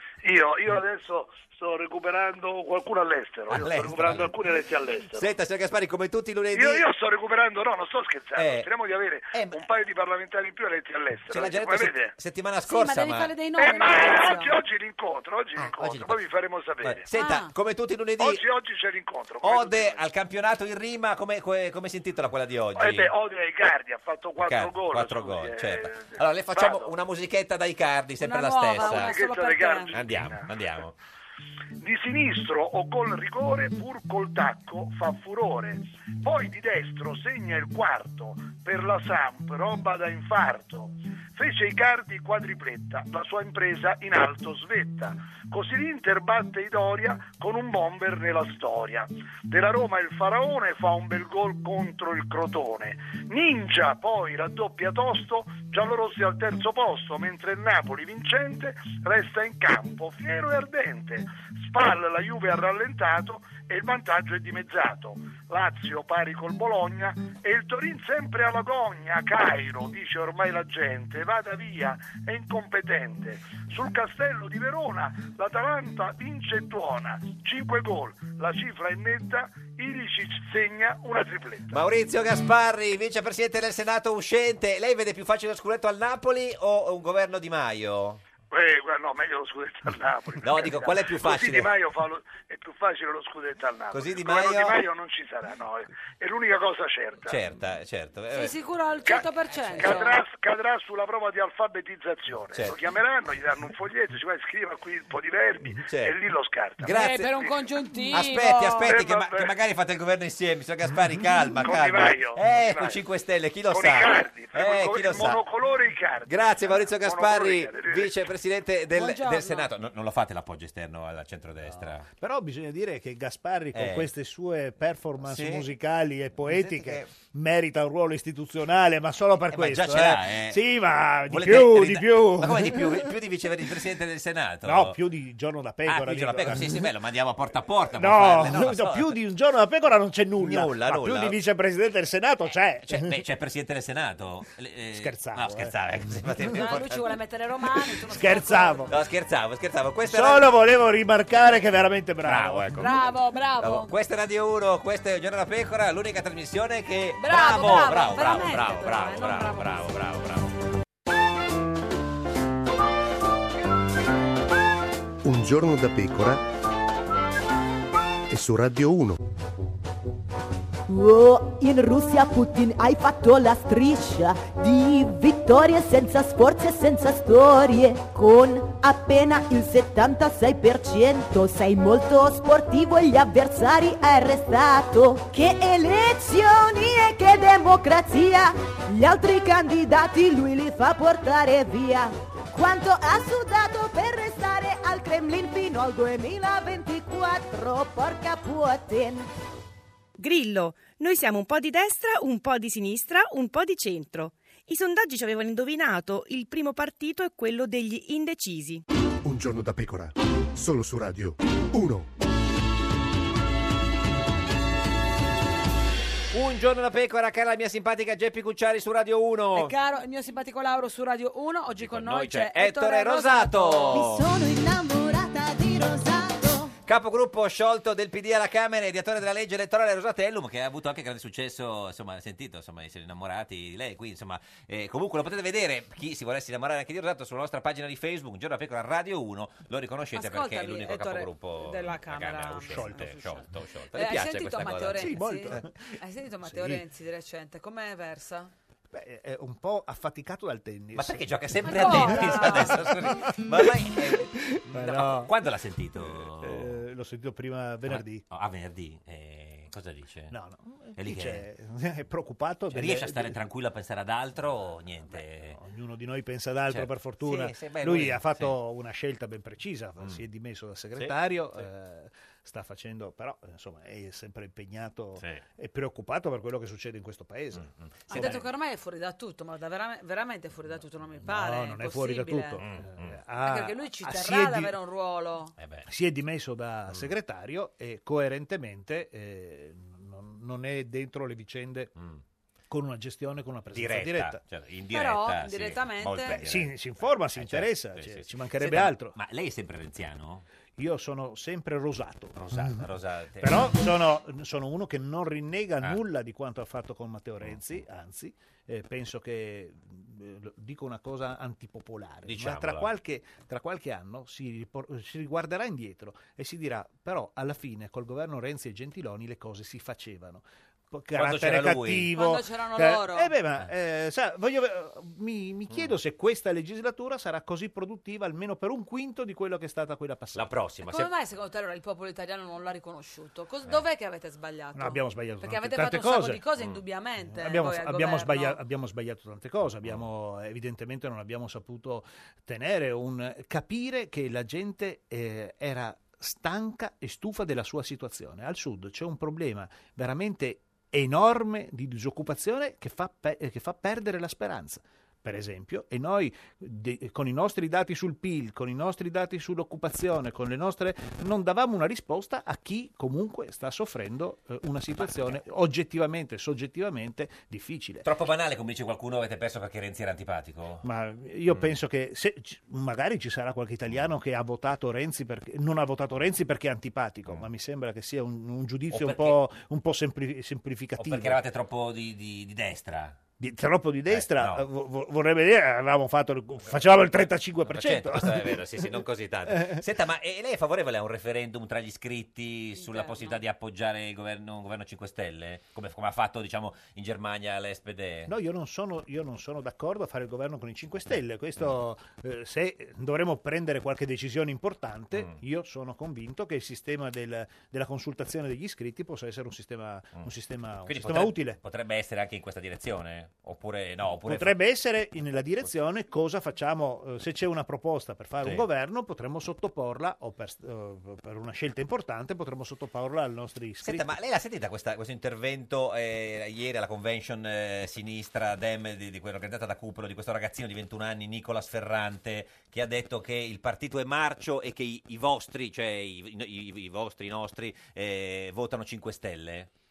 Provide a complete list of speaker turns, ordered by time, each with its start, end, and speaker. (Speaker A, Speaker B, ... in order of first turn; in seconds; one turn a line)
Speaker A: 0.2-5.3
Speaker B: 3.5-4.3
Speaker B: 5.1-6.8
Speaker A: 6.5-12.1
Speaker B: 8.3-8.7
Speaker B: 9.3-9.6
Speaker B: 11.3-13.3
Speaker C: 12.7-14.5
Speaker A: 13.6-17.1
Speaker B: 15.6-16.2
Speaker B: 16.8-18.4
Speaker C: 17.1-17.5
Speaker A: 18.2-20.0
Speaker B: 19.4-23.1
Speaker A: 22.7-26.9
Speaker B: 24.4-29.1
Speaker C: 28.2-29.9
Speaker A: 28.8-30.8
Speaker B: 29.9-30.9
Speaker A: 31.8-81.8
Speaker B: 81.7-88.2
Speaker A: 88.5-97.4
Speaker B: 90.4-91.7
Speaker B: 93.9-94.8
Speaker B: 97.2-98.5
Speaker C: 98.3-100.2
Speaker A: 99.0-107.6
Speaker B: 105.8-106.1
Speaker B: 106.8-107.4
Speaker C: 106.9-108.9
Speaker B: 108.1-115.4
Speaker A: 108.8-109.5
Speaker A: 111.6-113.0
Speaker A: 113.7-118.1
Speaker B: 116.2-122.1
Speaker C: 118.9-119.7
Speaker D: 121.7-133.1
Speaker B: 123.7-124.1
Speaker B: 125.2-125.7
Speaker B: 126.4-127.1
Speaker B: 129.5-130.6
Speaker B: 131.3-135.0
Speaker D: 134.6-136.9
Speaker B: 135.8-139.1
Speaker D: 137.9-143.2
Speaker B: 140.4-141.4
Speaker B: 142.9-147.1
Speaker D: 144.9-145.8
Speaker C: 146.5-148.9
Speaker D: 148.1-148.9
Speaker B: 148.9-150.5
Speaker D: 150.1-152.8
Speaker B: 152.2-152.9
Speaker C: 152.8-153.9
Speaker B: 153.6-160.5
Speaker C: 157.2-159.9
Speaker E: 165.2-166.4
Speaker E: 168.3-169.2
Speaker F: 170.9-199.3
Speaker G: 200.2-208.8
Speaker E: 209.2-212.1
Speaker B: 216.3-219.7
Speaker C: 219.6-224.0
Speaker B: 221.8-224.2
Speaker F: 223.9-226.7
Speaker B: 226.8-245.6
Speaker C: 240.1-243.2
Speaker D: 242.7-243.3
Speaker C: 243.9-248.5
Speaker D: 244.9-246.8
Speaker D: 248.9-255.3
Speaker B: 250.9-256.8
Speaker C: 251.6-252.8
Speaker D: 256.2-258.2
Speaker B: 257.9-260.3
Speaker D: 260.3-263.4
Speaker B: 260.9-261.4
Speaker B: 262.7-265.6
Speaker D: 265.1-278.4
Speaker B: 266.7-268.5
Speaker B: 270.9-271.6
Speaker B: 277.6-278.4
Speaker C: 278.1-282.6
Speaker D: 281.2-284.7
Speaker B: 282.6-283.2
Speaker C: 283.4-285.5
Speaker B: 285.6-285.9
Speaker D: 285.9-291.9
Speaker D: 292.7-294.4
Speaker B: 293.7-296.7
Speaker C: 294.9-296.4
Speaker D: 296.2-299.1
Speaker B: 297.3-300.4
Speaker D: 300.8-330.5
Speaker B: 302.4-303.7
Speaker B: 307.4-307.8
Speaker B: 312.2-312.9
Speaker B: 321.1-322.1
Speaker C: 322.1-323.3
Speaker B: 330.3-331.1
Speaker C: 330.9-338.6
Speaker D: 334.7-336.4
Speaker D: 337.3-368.1
Speaker B: 365.0-365.4
Speaker B: 368.0-370.8
Speaker D: 370.8-381.4
Speaker B: 378.9-379.4
Speaker B: 381.0-383.2
Speaker D: 383.4-389.8
Speaker B: 384.1-384.6
Speaker B: 387.7-398.3
Speaker C: 392.8-393.4
Speaker D: 398.3-411.6
Speaker B: 410.9-414.5
Speaker D: 414.2-424.1
Speaker B: 423.8-439.7